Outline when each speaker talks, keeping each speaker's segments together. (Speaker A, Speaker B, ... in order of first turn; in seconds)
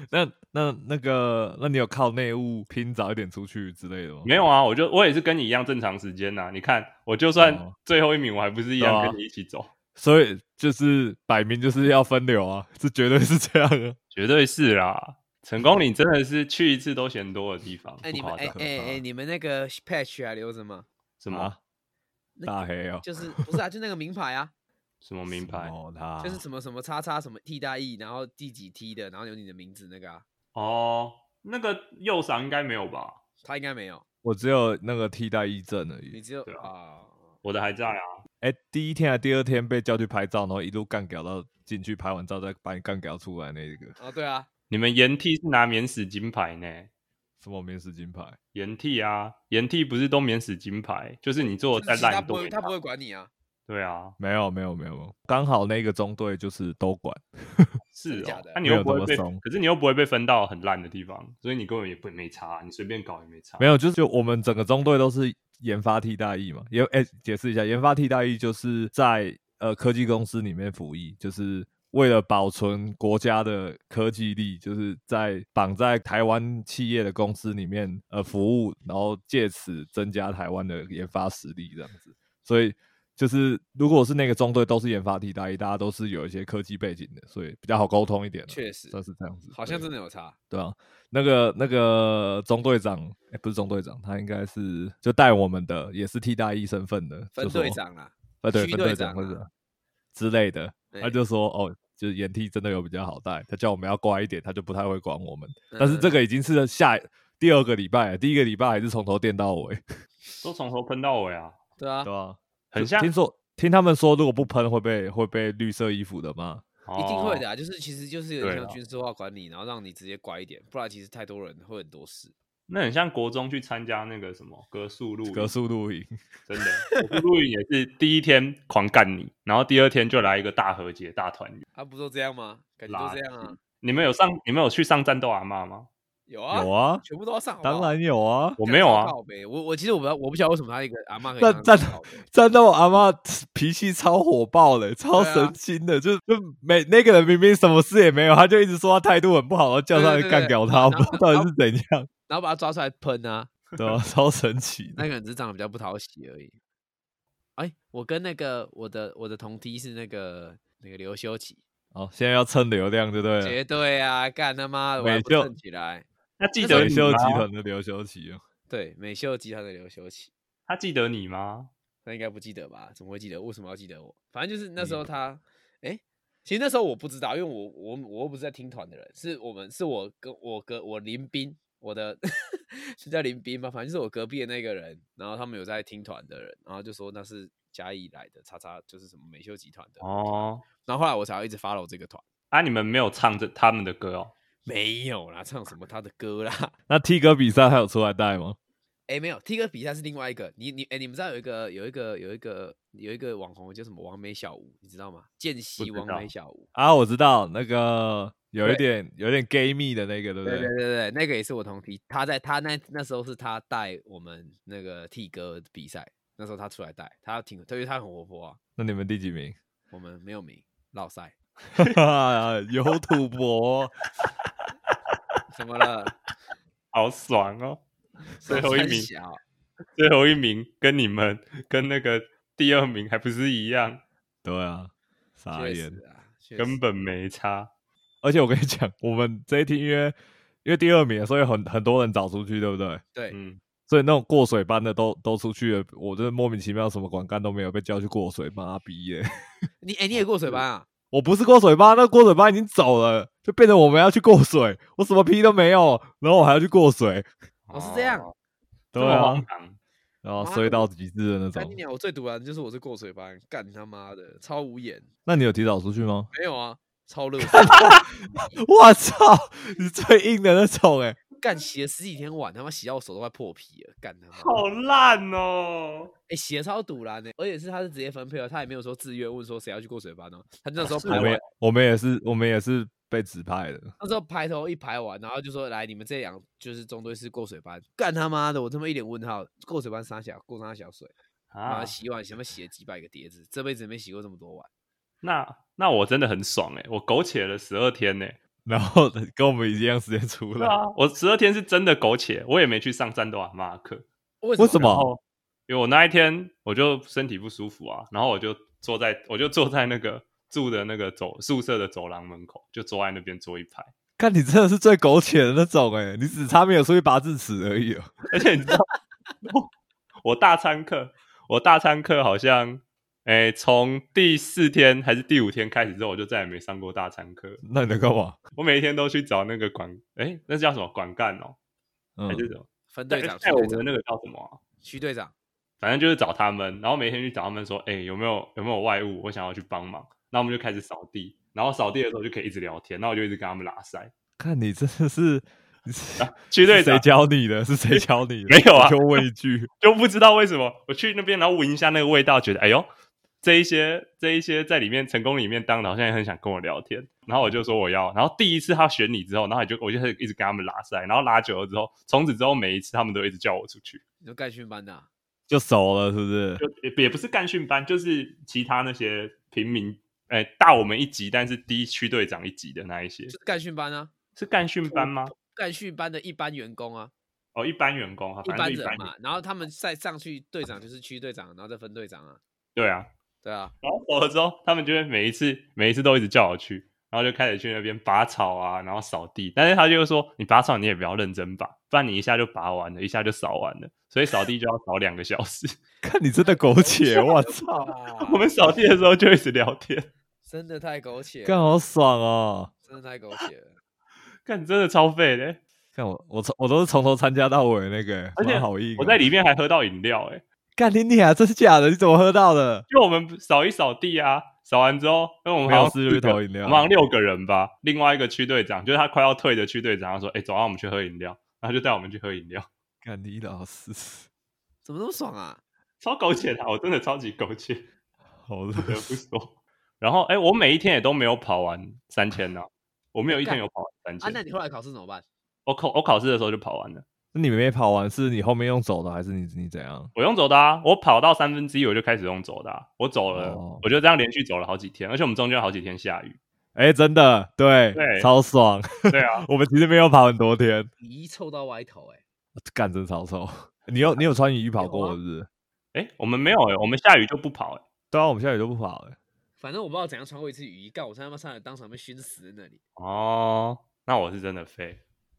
Speaker A: 0.1-4.3, 7.4-7.7, 8.8-9.2, 9.9-14.0, 18.5-19.0, 21.3-21.6, 22.5-23.6, 25.3-26.4, 34.2-36.2, 38.4-43.9, 47.4-48.4, 54.2-57.8, 58.6-59.4, 63.6-89.9, 90.5-97.8, 98.4-99.5, 100.1-109.8, 112.0-116.6, 125.3-126.2, 136.5-137.0, 137.6-138.6, 141.4-152.1, 153.8-155.1, 161.9-163.6, 165.0-165.5, 166.7-168.4, 196.9-198.6, 206.8-210.7, 218.8-219.6, 221.8-224.0, 234.4-236.0, 238.2-243.0, 243.9-249.5, 251.1-257.3, 258.9-259.4, 260.2-261.8, 265.2-266.3, 267.5-271.2, 281.1-283.9, 298.6-300.8, 304.6-305.1, 314.2-318.1, 327.6-328.4, 332.2-332.5, 344.4-349.7, 365.5-366.6, 396.0-397.7, 401.4-402.7, 405.9-409.2, 410.8-412.9, 415.6-416.9, 423.0-424.2, 428.5-429.1, 437.3-440.1, 443.3-443.8, 446.8-450.9, 452.6-455.5, 458.1-459.2
Speaker B: 4.2-9.7, 14.1-18.6, 21.2-21.5, 25.0-25.7, 30.6-33.2, 37.4-38.2, 44.7-46.9, 48.5-52.7, 53.7-54.2, 57.9-63.7, 110.4-111.6, 112.7-113.1, 116.9-117.4, 118.4-118.8, 122.7-125.5, 126.5-131.6, 132.9-135.9, 138.6-139.1, 166.4-167.5, 170.7-171.7, 190.0-190.6, 192.5-194.3, 205.8-206.3, 226.9-227.8, 228.4-229.1, 230.0-234.0, 236.6-237.7, 243.3-243.6, 257.7-258.3, 258.9-259.8, 274.4-276.1, 280.9-281.4, 291.5-291.9, 295.2-298.4, 300.6-304.1, 304.7-313.9, 318.3-318.9, 319.4-319.7, 320.2-327.6, 328.6-331.6, 332.3-334.6, 335.8-344.1, 346.2-347.1, 347.9-349.2, 349.8-352.9, 353.4-364.0, 366.6-373.3, 374.4-375.3, 377.6-379.1, 382.8-383.1, 383.8-395.8, 398.2-400.1, 404.4-405.6, 408.4-410.4, 412.9-422.7, 426.0-427.9, 428.8-434.4, 435.6-437.1, 440.1-446.4, 447.9-448.3, 449.1-449.5, 455.9-457.9, 463.0-465.0
Speaker C: 18.0-20.9, 22.4-24.5, 26.2-30.2, 33.4-34.0, 36.1-37.3, 44.0-44.5, 51.7-53.3, 58.1-58.6, 88.5-89.0, 89.5-90.4, 97.3-99.4, 100.9-101.2, 105.7-106.2, 111.8-112.1, 117.0-122.3, 126.9-127.2, 131.8-133.6, 136.3-138.0, 138.6-142.2, 145.1-145.6, 149.9-151.5, 152.3-153.5, 155.0-156.6, 157.6-161.6, 163.4-166.1, 166.6-167.0, 168.7-170.3, 172.1-192.2, 194.7-196.7, 199.1-206.7, 210.4-218.6, 219.9-221.3, 225.5-226.1, 228.4-229.4, 235.5-236.8, 249.8-250.9, 257.7-258.3, 260.4-260.9, 261.6-265.1, 266.3-268.5, 271.4-274.6, 276.3-281.4, 284.0-291.1, 291.6-294.7, 304.4-304.9, 332.9-333.9, 334.8-335.3, 364.2-365.1, 373.3-374.1, 374.9-377.1, 378.4-382.4, 383.4-383.7, 396.4-398.5, 400.5-401.7, 402.9-403.8, 424.9-425.6, 433.3-433.6, 434.2-435.2, 451.0-452.2, 454.8-455.2, 459.6-462.8